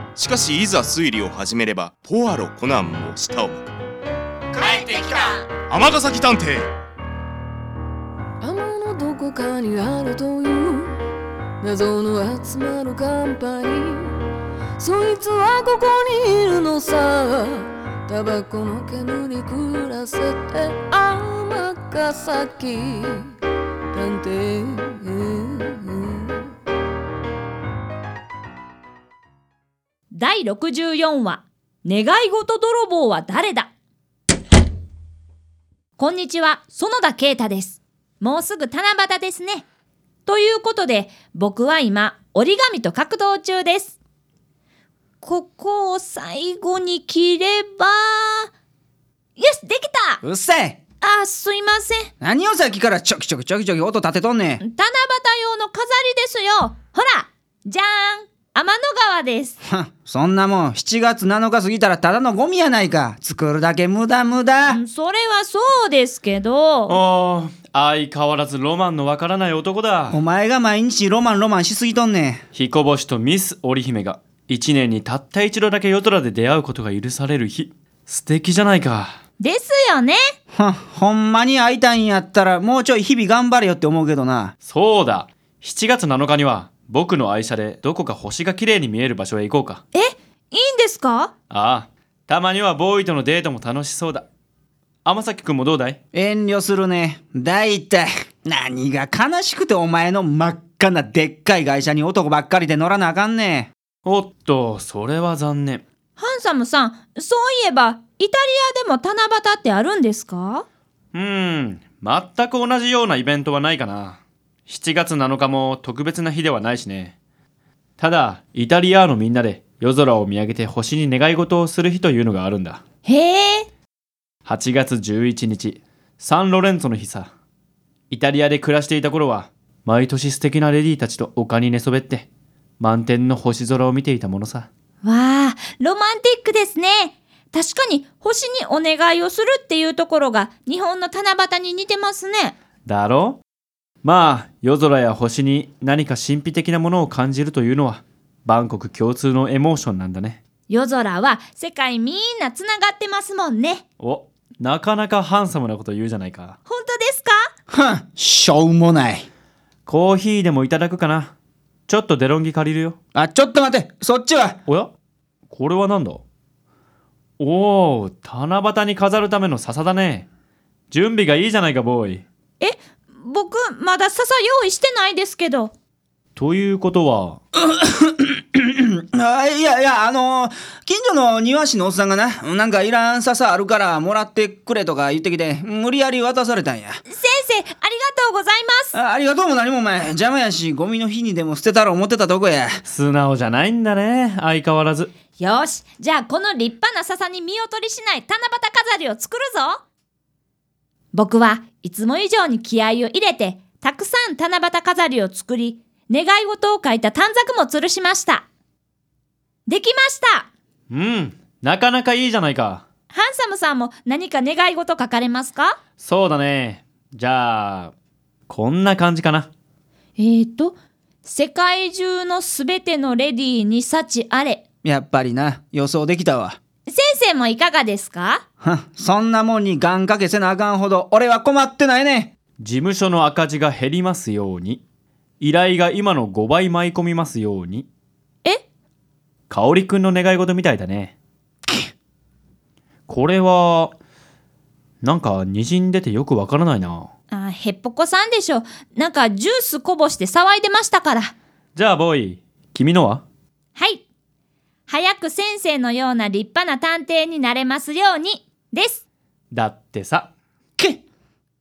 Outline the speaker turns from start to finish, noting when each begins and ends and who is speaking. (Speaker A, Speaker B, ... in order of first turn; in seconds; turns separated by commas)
Speaker A: 0.1-3.7, Speaker B: 4.6-5.4, Speaker A: 5.6-6.7, Speaker C: 8.4-11.0, Speaker C: 11.6-14.1, Speaker C: 14.8-23.3, Speaker C: 23.9-26.4, Speaker B: 30.1-33.7, Speaker B: 36.0-39.7, Speaker B: 40.2-44.0, Speaker B: 45.2-48.5, Speaker B: 49.4-50.2, Speaker D: 50.2-50.8, Speaker B: 51.0-52.1, Speaker D: 52.2-54.6, Speaker B: 54.6-59.6, Speaker D: 59.6-64.8, Speaker B: 64.7-67.0, Speaker E: 66.9-70.2, Speaker D: 70.1-72.4, Speaker E: 72.5-79.2, Speaker B: 79.4-80.2, Speaker D: 80.5-84.5, Speaker E: 84.6-89.8, Speaker B: 89.9-91.3, Speaker E: 91.5-94.3, Speaker E: 95.0-96.0, Speaker D: 96.1-103.7, Speaker E: 104.0-105.8, Speaker B: 106.2-110.7, Speaker E: 111.1-117.1, Speaker E: 118.0-122.8, Speaker B: 123.0-123.7, Speaker E: 124.5-127.3, Speaker E: 128.1-132.3, Speaker E: 132.8-134.7, Speaker B: 135.0-142.6, Speaker E: 142.8-143.4, Speaker E: 144.0-150.4, Speaker B: 150.7-153.8, Speaker E: 154.0-156.6, Speaker B: 156.7-157.4, Speaker D: 157.7-159.3, Speaker E: 159.8-161.3, Speaker E: 161.9-162.9, Speaker D: 163.2-164.6, Speaker E: 164.7-164.9, Speaker E: 165.5-166.2, Speaker E: 167.4-170.3, Speaker E: 170.9-172.2, Speaker B: 172.6-175.7, Speaker E: 176.3-177.4, Speaker D: 177.6-187.0, Speaker B: 187.1-188.9, Speaker D: 188.9-192.8, Speaker E: 192.8-195.1, Speaker B: 195.4-199.8, Speaker B: 201.1-208.5, Speaker B: 209.7-210.5, Speaker E: 210.9-212.8, Speaker B: 213.1-215.8, Speaker E: 216.0-217.9, Speaker E: 218.5-219.5, Speaker B: 220.2-224.6, Speaker D: 224.8-226.6, Speaker B: 226.9-228.4, Speaker D: 228.6-232.3, Speaker E: 232.6-234.8, Speaker E: 235.4-237.9, Speaker E: 239.5-241.2, Speaker E: 243.1-243.9, Speaker E: 245.0-247.1, Speaker B: 247.3-251.3, Speaker E: 251.8-253.2, Speaker B: 253.8-254.1, Speaker B: 254.9-259.0, Speaker E: 259.5-260.3, Speaker D: 260.8-261.0